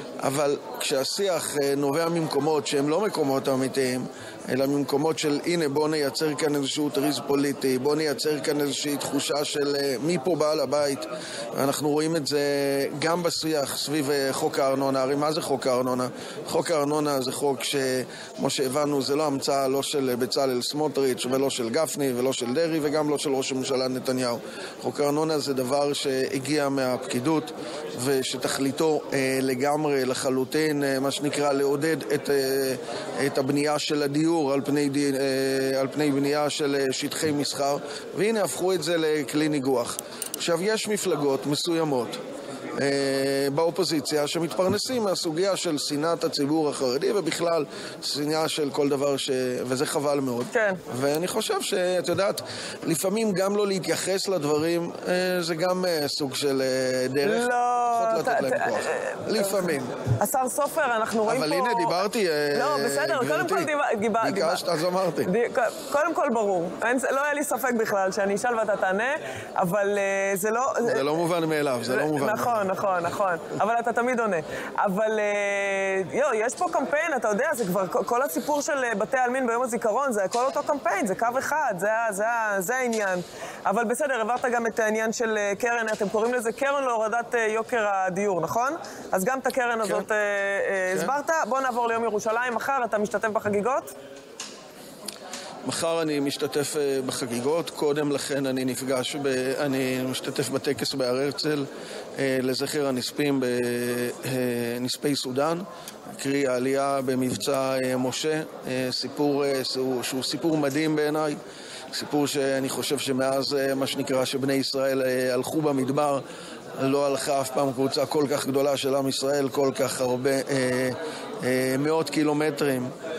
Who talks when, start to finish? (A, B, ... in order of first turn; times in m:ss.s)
0:00.2-0:42.2 A
0:42.8-0:59.9 A
0:50.5-0:50.8 B
0:57.2-1:02.0 B
1:01.2-1:05.3 A
1:02.5-1:04.7 B
1:05.2-1:11.1 B
1:10.8-1:12.7 A
1:11.9-1:33.9 B
1:35.6-1:51.4 A
1:51.9-1:56.2 A
1:56.8-2:02.9 A